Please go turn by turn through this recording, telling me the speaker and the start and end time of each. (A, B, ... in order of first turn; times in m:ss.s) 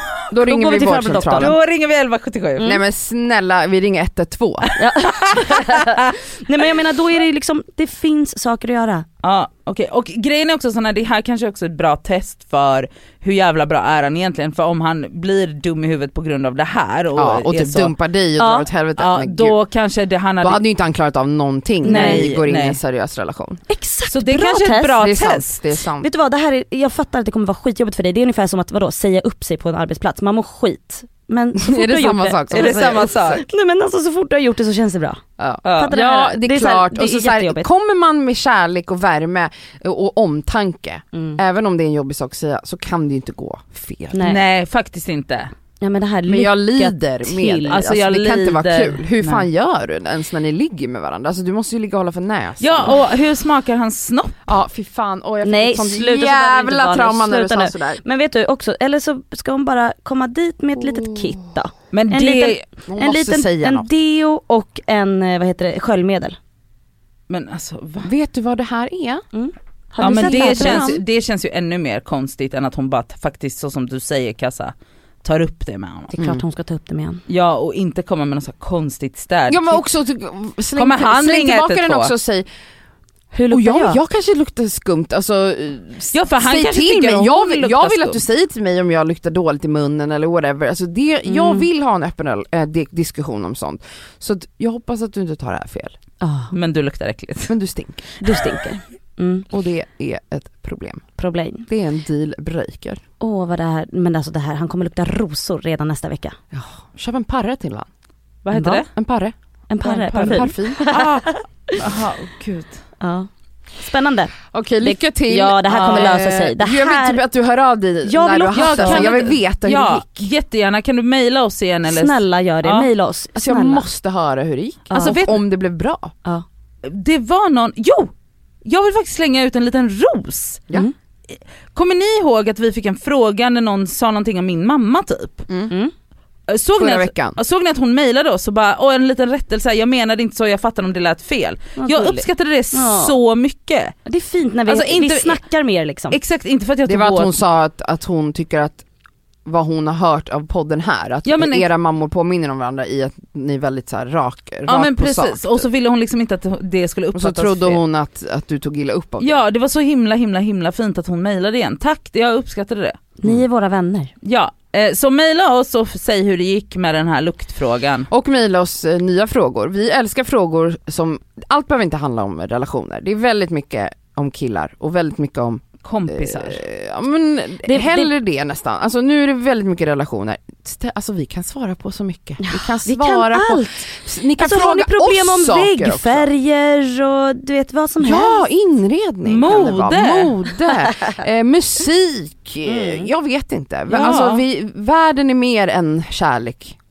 0:00.3-0:01.5 A
0:00.4-0:01.6 B
0:01.3-0:02.7 C
0:02.6-0:04.7 A
0:04.8-0:09.1 B
0:05.2-0:05.9 C
0:09.2-0:17.9 C
0:17.2-0:19.6 A
0:18.4-0:18.7 B
0:19.0-0:20.6 C
0:20.4-0:23.6 A
0:21.8-0:22.3 B
0:21.9-0:22.8 C
0:23.7-0:25.0 B
0:24.1-0:25.6 C
0:25.0-0:26.1 A
0:26.0-0:37.7 B
0:31.6-0:33.4 A
0:32.5-0:33.4 C
0:35.4-0:44.2 A
0:35.6-0:35.9 C
0:41.1-0:41.4 B
0:44.1-0:44.4 B
0:44.2-0:45.5 C
0:45.8-0:47.9 B
0:46.3-0:53.0 A
0:47.7-0:49.5 C
0:52.6-0:54.4 C
0:54.5-0:58.0 A
0:55.4-1:06.4 B
1:01.9-1:02.6 C
1:02.9-1:03.9 A
1:07.3-1:08.1 C
1:08.0-1:09.2 A
1:09.3-1:11.0 B
1:10.0-1:11.0 A
1:10.0-1:14.7 C
1:15.2-1:16.1 C
1:16.1-1:17.2 B
1:16.2-1:16.4 A
1:17.3-1:19.8 C
1:19.5-1:22.5 A
1:20.8-1:22.1 C
1:23.3-1:24.0 B
1:23.5-1:36.0 A
1:26.1-1:28.2 C
1:31.3-1:31.7 B
1:36.2-1:36.5 B
1:36.5-1:37.6 C
1:37.5-1:38.1 A
1:38.2-1:39.5 B
1:39.5-1:41.0 A
1:41.2-1:41.7 B
1:41.7-1:43.0 A
1:43.2-1:46.4 B
1:46.5-1:47.9 A
1:48.4-1:48.9 C
1:48.5-1:48.8 B
1:49.0-1:49.3 A
1:49.7-1:51.8 B
1:49.8-1:52.8 C
1:50.2-1:50.9 A
1:53.0-1:57.2 B
1:54.5-2:00.3 A
1:55.7-1:56.2 C
1:58.0-1:59.1 B
1:58.6-2:02.9 C
2:01.9-2:03.9 B
2:03.4-2:06.1 A
2:04.9-2:05.2 B
2:04.9-2:05.4 C
2:06.8-2:08.1 C
2:08.6-2:10.7 C
2:11.7-2:15.5 C
2:15.5-2:15.7 A
2:16.5-2:23.9 C
2:16.8-2:17.4 A
2:21.8-2:23.1 B
2:24.0-2:26.2 B
2:24.7-2:25.4 C
2:26.1-2:27.4 C
2:26.8-2:28.8 A
2:29.5-2:35.6 A
2:31.2-2:31.7 C
2:34.7-2:37.8 C
2:37.1-2:39.4 A
2:39.2-2:43.0 C
2:43.2-2:44.1 B
2:44.2-2:48.1 C
2:48.1-3:06.3 A
2:55.8-2:56.6 C
2:57.6-2:58.1 B
3:02.4-3:08.4 B
3:08.0-3:16.8 A
3:09.2-3:10.5 C
3:12.7-3:13.1 B
3:13.9-3:14.4 C